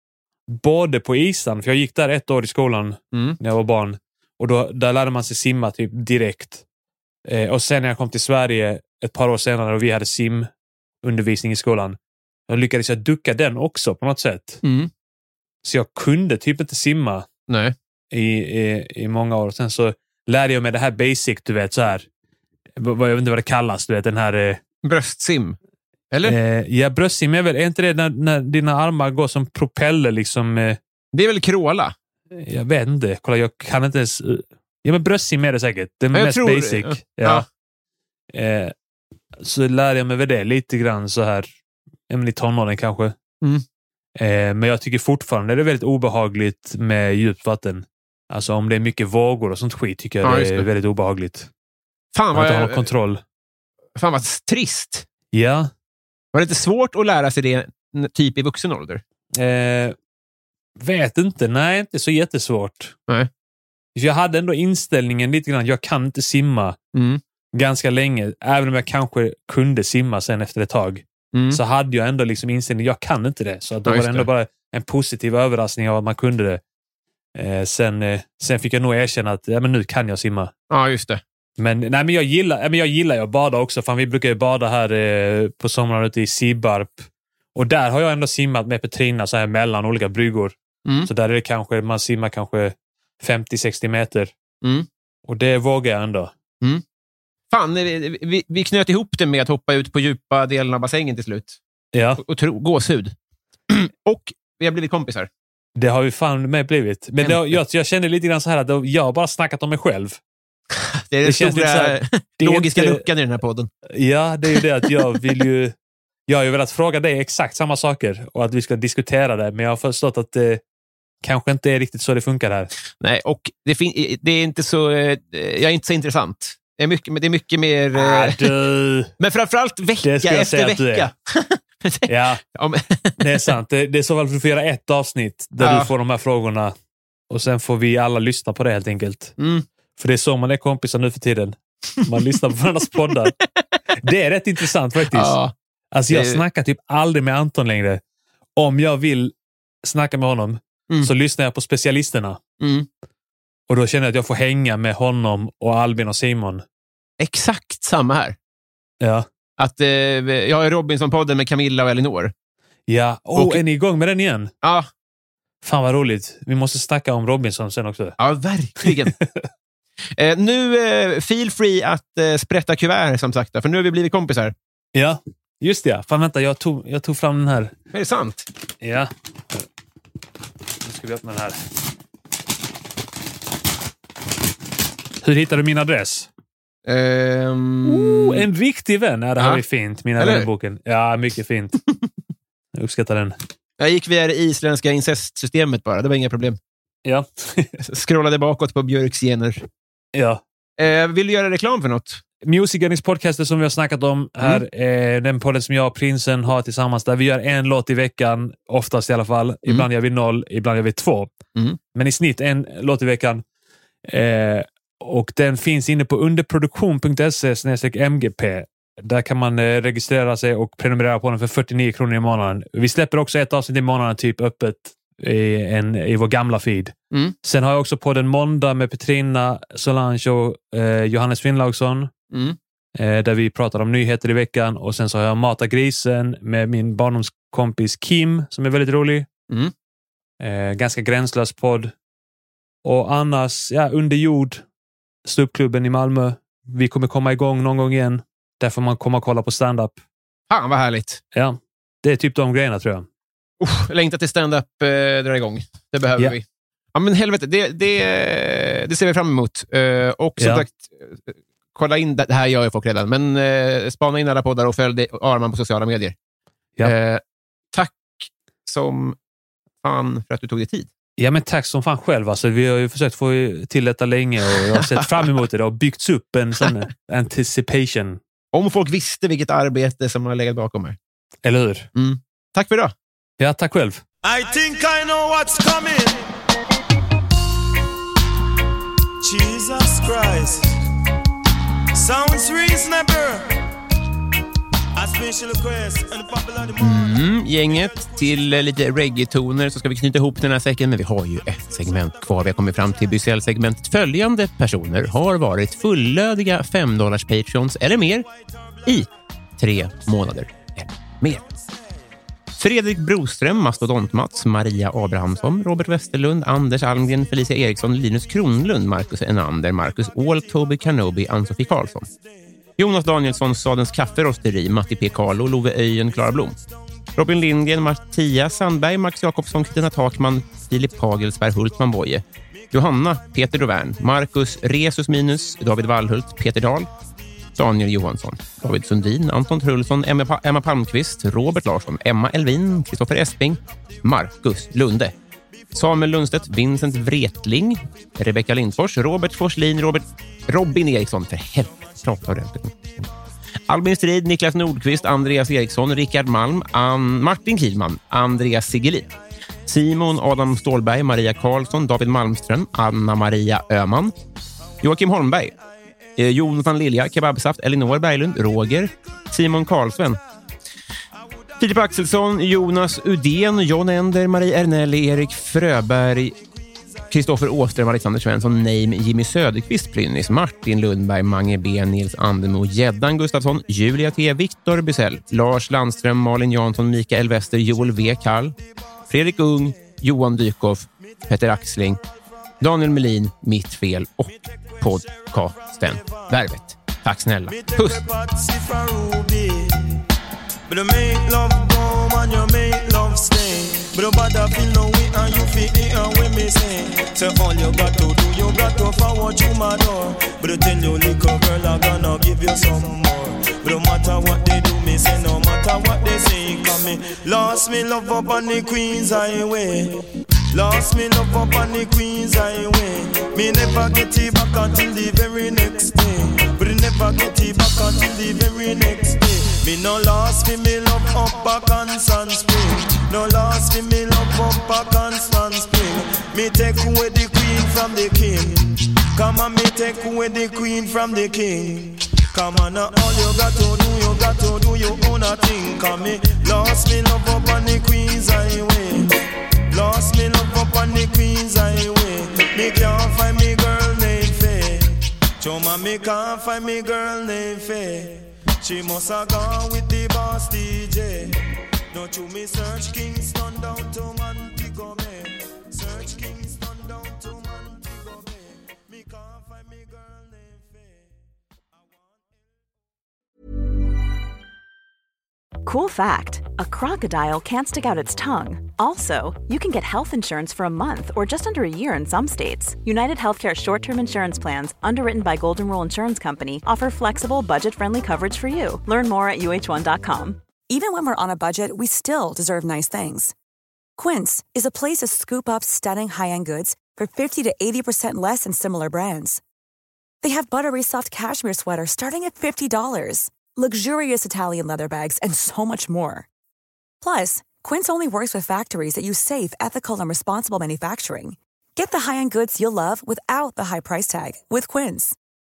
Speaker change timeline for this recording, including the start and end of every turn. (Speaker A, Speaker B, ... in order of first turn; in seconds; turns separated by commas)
Speaker A: 0.5-6.6, Speaker A: 7.3-10.5, Speaker A: 11.0-12.0, Speaker A: 12.5-14.6, Speaker B: 14.6-14.9, Speaker A: 15.6-17.3, Speaker B: 17.5-17.8, Speaker A: 18.1-22.1, Speaker A: 22.8-24.6, Speaker B: 24.8-25.6, Speaker B: 26.1-26.4, Speaker A: 26.2-30.8, Speaker B: 31.1-31.9, Speaker A: 32.3-37.5, Speaker B: 36.1-37.5, Speaker A: 38.3-38.7, Speaker A: 39.4-41.5, Speaker A: 42.1-43.1, Speaker A: 44.2-51.5, Speaker B: 50.2-50.7, Speaker B: 52.1-52.9, Speaker A: 52.3-53.2, Speaker B: 54.0-55.1, Speaker A: 55.3-55.7, Speaker B: 56.3-59.0, Speaker A: 59.4-60.0, Speaker A: 60.8-63.0, Speaker A: 64.0-66.8, Speaker B: 66.9-67.2, Speaker A: 67.5-76.6, Speaker B: 71.3-71.6, Speaker B: 73.9-74.3, Speaker A: 77.3-80.5, Speaker B: 80.7-81.2, Speaker A: 81.6-90.5, Speaker A: 91.1-94.3, Speaker A: 95.3-96.3, Speaker B: 97.5-101.6, Speaker A: 101.9-102.2, Speaker B: 102.2-103.2, Speaker B: 103.7-105.3, Speaker A: 105.8-110.2, Speaker B: 107.2-107.6, Speaker B: 111.0-113.7, Speaker A: 111.2-113.0, Speaker A: 113.9-115.7, Speaker A: 116.3-120.6, Speaker A: 121.2-122.7, Speaker B: 123.0-128.5, Speaker A: 128.0-129.1, Speaker B: 129.2-133.5, Speaker A: 130.0-131.1, Speaker A: 132.1-132.4, Speaker A: 133.2-136.7, Speaker B: 135.6-135.9, Speaker A: 137.3-139.3, Speaker B: 139.4-139.7, Speaker A: 140.0-143.3, Speaker B: 143.0-143.3, Speaker A: 144.0-145.4, Speaker B: 145.1-145.5, Speaker A: 145.9-148.0, Speaker B: 146.1-146.4, Speaker A: 148.6-152.4, Speaker B: 152.6-152.9, Speaker A: 153.7-156.6, Speaker B: 157.2-158.4, Speaker A: 159.0-159.3, Speaker B: 159.6-162.3, Speaker A: 162.9-164.5, Speaker B: 163.3-163.6, Speaker B: 164.6-164.9, Speaker A: 165.6-168.2, Speaker B: 168.2-169.2, Speaker A: 168.8-169.3, Speaker B: 170.2-174.5, Speaker A: 174.9-177.8, Speaker B: 177.9-178.5, Speaker A: 178.8-179.6, Speaker A: 180.8-181.6, Speaker A: 185.2-186.3, Speaker B: 186.9-188.4, Speaker A: 187.9-191.8, Speaker B: 190.2-190.5, Speaker A: 192.7-193.4, Speaker B: 193.8-196.6, Speaker A: 197.1-197.7, Speaker B: 197.8-199.6, Speaker A: 200.2-200.4, Speaker B: 200.8-202.2, Speaker A: 202.4-211.3, Speaker A: 211.9-213.4, Speaker A: 214.1-232.1, Speaker B: 232.3-232.6, Speaker A: 233.0-239.3, Speaker A: 240.4-241.9, Speaker A: 242.8-244.6, Speaker A: 245.2-250.0, Speaker B: 250.5-251.2, Speaker A: 251.3-253.1, Speaker B: 253.6-266.1, Speaker A: 260.4-260.7, Speaker B: 266.9-267.2, Speaker B: 267.7-269.2, Speaker B: 269.8-270.9, Speaker A: 271.2-278.2, Speaker B: 274.5-275.4, Speaker B: 278.5-281.0, Speaker A: 281.4-281.9, Speaker B: 282.0-282.9, Speaker A: 283.4-284.0, Speaker C: 284.2-286.3, Speaker C: 289.2-290.8, Speaker C: 291.9-293.6, Speaker C: 295.0-297.1, Speaker B: 296.8-308.3, Speaker B: 308.9-311.4, Speaker B: 312.6-322.1, Speaker B: 322.8-326.6, Speaker B: 327.2-336.9, Speaker B: 337.6-345.1, Speaker B: 345.7-353.1, Speaker B: 353.7-359.1, Speaker B: 359.7-364.1, Speaker B: 364.8-365.5, Speaker B: 366.2-370.2, Speaker B: 371.6-376.4, Speaker B: 377.1-388.6, Speaker B: 389.1-392.0, Speaker B: 392.6-398.0, Speaker C: 394.7-396.3, Speaker C: 397.5-400.0, Speaker C: 400.7-449.2, Speaker C: 449.7-461.4, Speaker C: 461.9-471.0, Speaker D: 475.6-490.4, Speaker E: 490.7-493.3, Speaker E: 494.0-499.4, Speaker E: 500.2-506.3, Speaker E: 507.0-515.2